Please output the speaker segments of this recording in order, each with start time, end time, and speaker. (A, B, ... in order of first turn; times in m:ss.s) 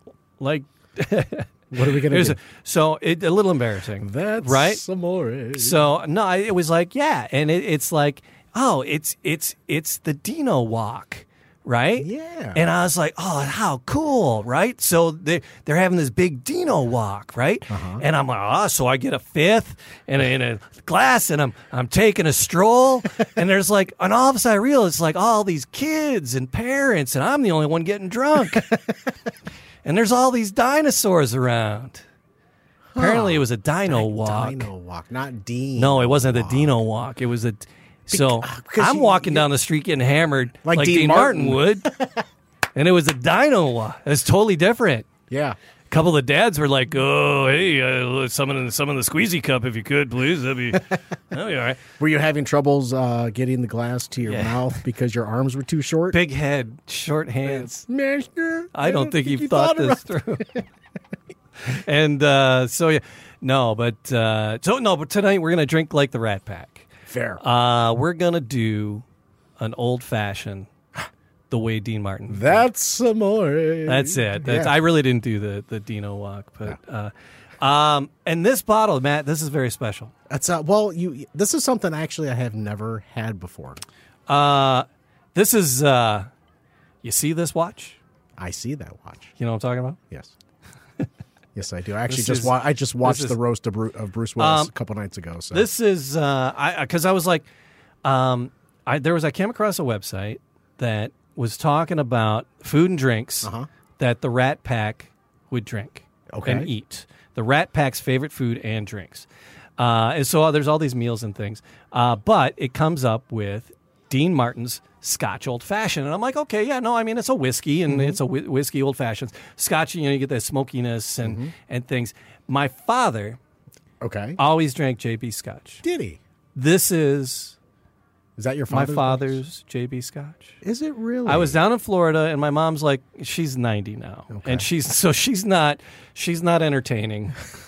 0:00.4-0:04.8 A
0:01.7-0:02.4 B
0:04.0-0:05.8 B
0:05.6-0:28.7 A
0:12.0-0:12.6 B
0:17.7-0:18.0 B
0:29.8-0:32.0 A
0:32.9-0:36.8 B
0:33.0-0:34.7 A
0:35.8-0:41.9 A
0:38.1-0:39.5 B
0:40.6-0:42.2 B
0:42.8-0:45.1 A
0:45.3-0:45.6 B
0:45.9-0:51.8 A
0:52.0-0:56.2 B
0:54.3-0:54.7 A
0:56.1-0:57.8 A
0:57.5-1:00.6 B
0:58.7-1:00.5 A
1:01.6-1:06.9 A
1:07.1-1:07.4 B
1:07.4-1:09.0 A
1:09.6-1:10.7 A
1:11.5-1:12.7 A
1:12.3-1:14.7 B
1:13.9-1:20.1 A
1:20.3-1:23.8 B
1:24.3-1:26.3 A
1:27.0-1:28.0 A
1:28.4-1:29.3 B
1:29.4-1:30.0 A
1:31.6-1:35.7 B
1:32.1-1:33.4 A
1:34.4-1:34.7 A
1:35.5-1:37.5 A
1:38.0-1:49.3 A
1:46.3-1:46.7 B
1:49.8-2:03.4 A
1:57.9-1:58.2 B
2:01.2-2:01.5 B
2:04.0-2:04.4 B
2:04.4-2:05.8 A
2:05.8-2:06.2 B
2:06.6-2:07.6 A
2:08.4-2:09.4 B
2:08.7-2:10.6 A
2:10.6-2:11.6 B
2:11.3-2:17.4 A
2:14.3-2:14.7 B